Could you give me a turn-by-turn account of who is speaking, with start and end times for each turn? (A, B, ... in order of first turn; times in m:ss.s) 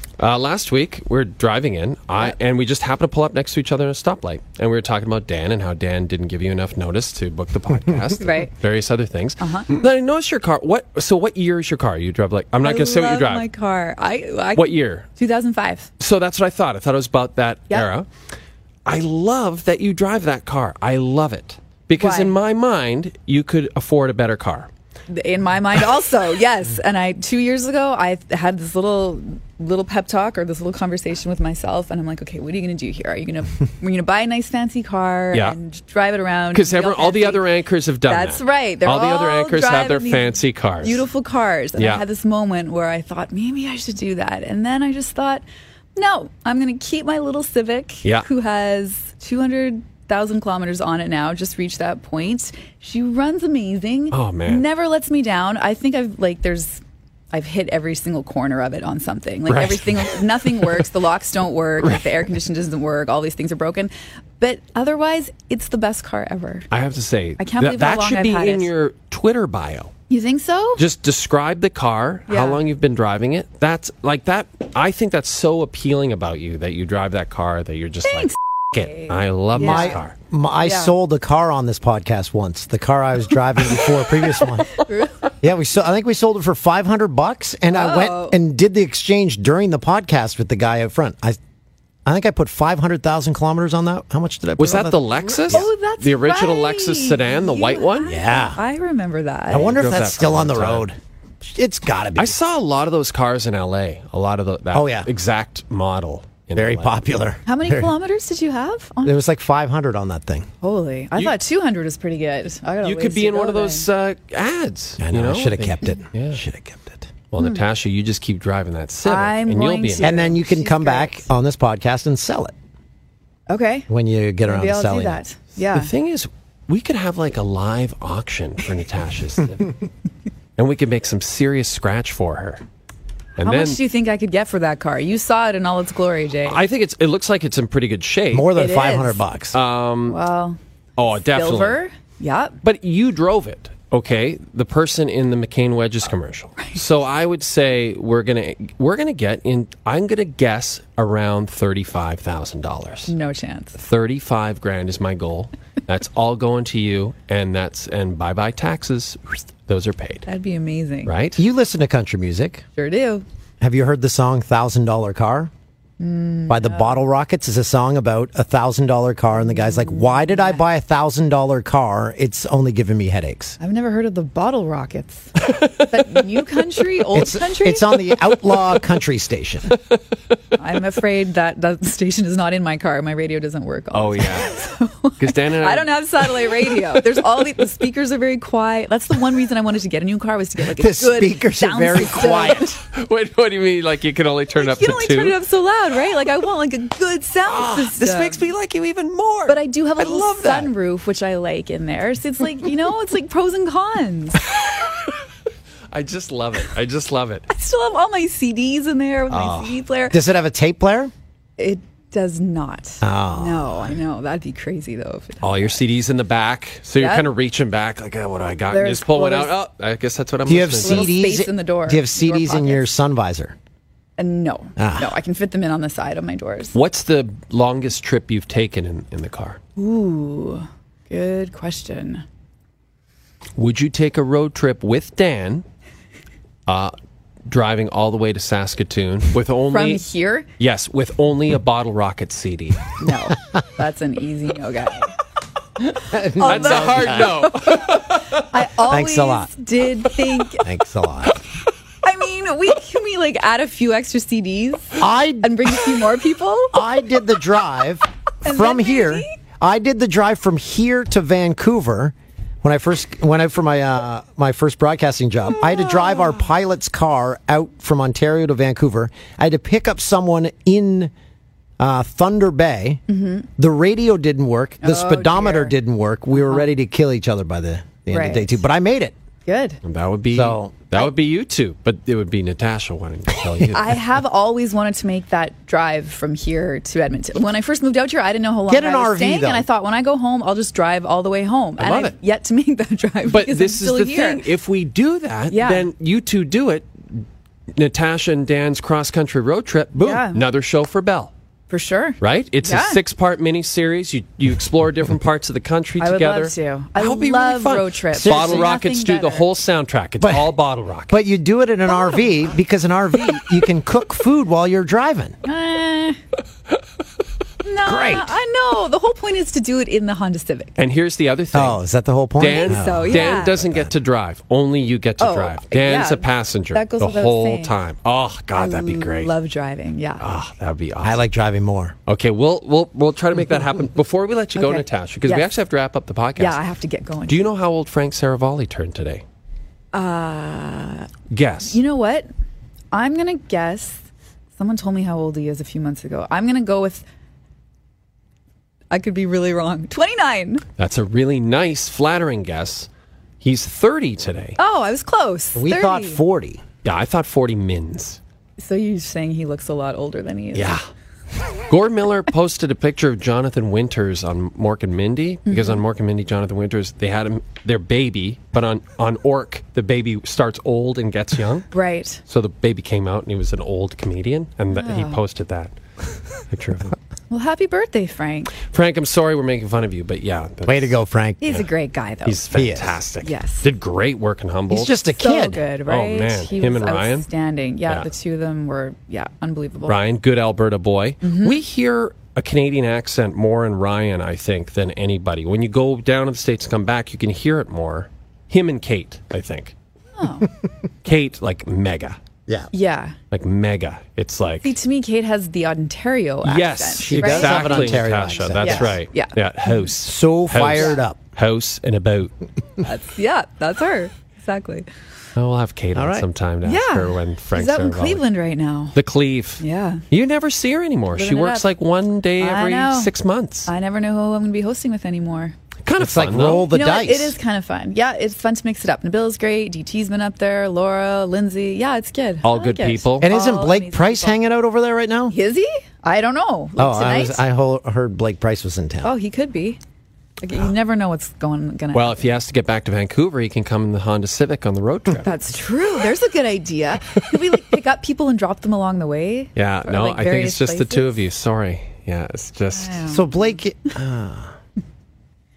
0:00.2-0:13.5 A
0:08.2-0:08.5 B
0:09.4-0:09.7 B
0:12.6-0:15.9 B
0:14.6-0:15.1 A
0:16.0-0:18.1 A
0:18.9-0:24.7 A
0:22.0-0:22.3 B
0:25.1-0:37.5 B
0:35.3-0:35.6 A
0:36.5-0:41.0 A
0:38.1-0:45.4 B
0:41.8-0:42.0 A
0:46.0-0:56.8 B
0:54.1-0:54.7 A
0:57.3-1:06.7 B
0:59.5-1:00.8 A
1:01.8-1:02.1 A
1:06.7-1:09.9 A
1:07.4-1:08.7 B
1:10.1-1:10.8 B
1:10.8-1:20.2 A
1:12.3-1:12.6 B
1:18.0-1:20.0 B
1:19.6-1:24.8 C
1:20.6-1:21.0 B
1:24.7-1:25.3 B
1:25.4-1:31.4 C
1:27.7-1:28.4 B
1:32.0-1:35.7 C
1:34.6-1:38.1 A
1:35.5-1:39.8 B
1:38.0-1:38.6 C
1:39.5-1:42.4 C
1:39.5-1:40.9 A
1:42.2-1:47.0 A
1:44.7-1:45.1 C
1:46.5-1:47.9 C
1:47.4-1:49.2 B
1:49.0-1:50.5 C
1:50.6-1:53.9 B
1:52.8-1:56.4 A
1:55.0-1:57.1 C
1:57.3-2:00.1 A
1:59.0-2:01.3 B
2:00.0-2:02.5 C
2:03.5-2:03.9 B
2:03.9-2:05.2 C
2:04.4-2:05.9 B
2:05.6-2:09.7 A
2:10.6-2:12.6 A
2:13.4-2:13.8 A
2:13.4-2:16.6 B
2:16.5-2:18.5 A
2:18.3-2:19.6 C
2:18.5-2:19.2 B
2:19.5-2:20.2 A
2:20.1-2:20.6 B
2:21.0-2:21.8 A
2:21.3-2:22.6 B
2:22.6-2:33.1 A
2:33.1-2:33.8 B
2:33.8-2:40.3 A
2:40.3-2:41.1 B
2:41.1-2:41.4 A
2:41.4-2:42.6 C
2:42.8-2:43.2 B
2:43.6-2:45.5 C
2:46.0-2:47.0 B
2:46.5-2:53.6 C
2:49.3-2:50.6 B
2:53.6-2:58.1 B
2:57.1-2:59.7 C
3:00.6-3:12.8 B
3:03.9-3:04.5 A
3:05.2-3:07.0 A
3:10.7-3:12.7 C
3:12.9-3:15.4 A
3:14.5-3:18.5 B
3:17.4-3:20.7 A
3:19.5-3:24.4 B
3:24.5-3:24.8 A
3:25.9-3:27.5 A
3:27.5-3:30.2 B
3:29.3-3:29.8 A
3:30.1-3:31.1 C
3:31.6-3:35.8 B
3:33.0-3:34.0 C
3:35.4-3:41.2 A
3:37.0-3:37.3 B
3:38.7-3:39.6 B
3:40.5-3:43.6 C
3:40.8-3:42.9 B
3:44.2-3:46.8 B
3:44.8-3:45.1 C
3:46.7-3:49.6 A
3:49.8-3:52.2 B
3:53.6-3:55.6 A
3:56.7-3:56.9 A
3:57.5-4:00.0 A
3:59.7-4:00.5 B
4:00.6-4:03.0 A
4:03.0-4:05.1 B
4:06.0-4:07.5 C
4:06.2-4:10.6 B
4:06.4-4:08.4 A
4:08.8-4:09.6 C
4:10.6-4:11.4 C
4:12.0-4:17.2 B
4:15.0-4:15.8 C
4:16.7-4:31.1 C
4:18.4-4:19.3 B
4:31.8-4:33.0 C
4:33.1-4:33.5 B
4:33.6-4:39.2 C
4:34.8-4:35.8 B
4:36.3-4:36.7 B
4:38.1-4:38.6 B
4:39.4-4:39.8 B
4:39.8-4:44.0 A
4:40.3-4:40.8 C
4:43.7-4:54.5 B
4:48.7-4:49.7 C
4:51.8-4:52.2 A
4:53.3-5:01.3 A
4:55.5-4:55.9 B
5:00.0-5:00.4 B
5:01.7-5:03.0 B
5:02.2-5:11.1 A
5:06.0-5:09.5 B
5:08.1-5:08.7 C
5:10.2-5:10.5 C
5:11.1-5:15.4 C
5:11.9-5:12.2 B
5:15.4-5:16.2 B
5:17.6-5:20.7 B
5:17.8-5:18.4 C
5:20.8-5:21.8 A
5:21.5-5:23.9 C
5:22.4-5:29.3 A
5:22.4-5:23.6 B
5:25.2-5:27.8 B
5:28.5-5:30.2 B
5:30.2-5:31.2 A
5:31.0-5:32.0 C
5:32.1-5:36.6 A
5:34.6-5:35.5 B
5:36.4-5:37.5 B
5:37.3-5:39.2 A
5:39.9-5:41.1 B
5:41.3-5:41.8 A
5:41.7-5:42.3 B
5:42.9-5:44.0 B
5:44.6-5:47.0 B
5:48.9-5:50.6 B
5:50.8-5:52.9 A
5:53.4-5:54.6 A
5:54.6-5:56.2 B
5:55.6-5:56.6 C
5:56.8-5:58.2 A
5:58.6-6:00.8 B
6:00.6-6:00.8 A
6:01.7-6:11.7 A
6:05.5-6:05.8 B
6:11.7-6:12.2 B
6:12.3-6:15.8 A
6:14.7-6:15.2 B
6:16.4-6:17.0 A
6:17.3-6:18.6 B
6:18.6-6:21.0 A
6:20.7-6:21.7 C
6:21.4-6:23.7 B
6:22.2-6:24.9 A
6:22.5-6:23.0 C
6:24.7-6:25.7 C
6:25.2-6:30.0 B
6:25.9-6:27.3 A
6:29.8-6:39.8 A
6:31.2-6:31.6 B
6:40.2-6:40.5 B
6:41.0-6:42.2 A
6:42.7-6:43.2 B
6:43.3-6:44.7 A
6:44.6-6:49.4 B
6:46.4-6:52.3 A
6:47.0-6:49.0 C
6:50.0-6:51.2 C
6:50.6-6:51.0 B
6:52.8-6:54.9 B
6:55.4-6:58.2 A
6:56.0-6:56.3 C
6:56.6-6:59.0 B
6:58.9-7:03.7 A
6:59.6-7:00.0 B
7:01.2-7:01.7 B
7:02.4-7:03.1 B
7:03.7-7:05.6 B
7:05.8-7:06.7 A
7:06.0-7:07.4 C
7:06.4-7:14.4 B
7:12.4-7:13.4 A
7:13.2-7:15.4 C
7:15.3-7:17.4 B
7:16.8-7:19.2 C
7:19.0-7:19.8 B
7:20.4-7:22.2 B
7:21.9-7:25.4 A
7:25.2-7:31.2 B
7:29.6-7:33.0 A
7:32.7-7:33.6 B
7:33.1-7:34.6 C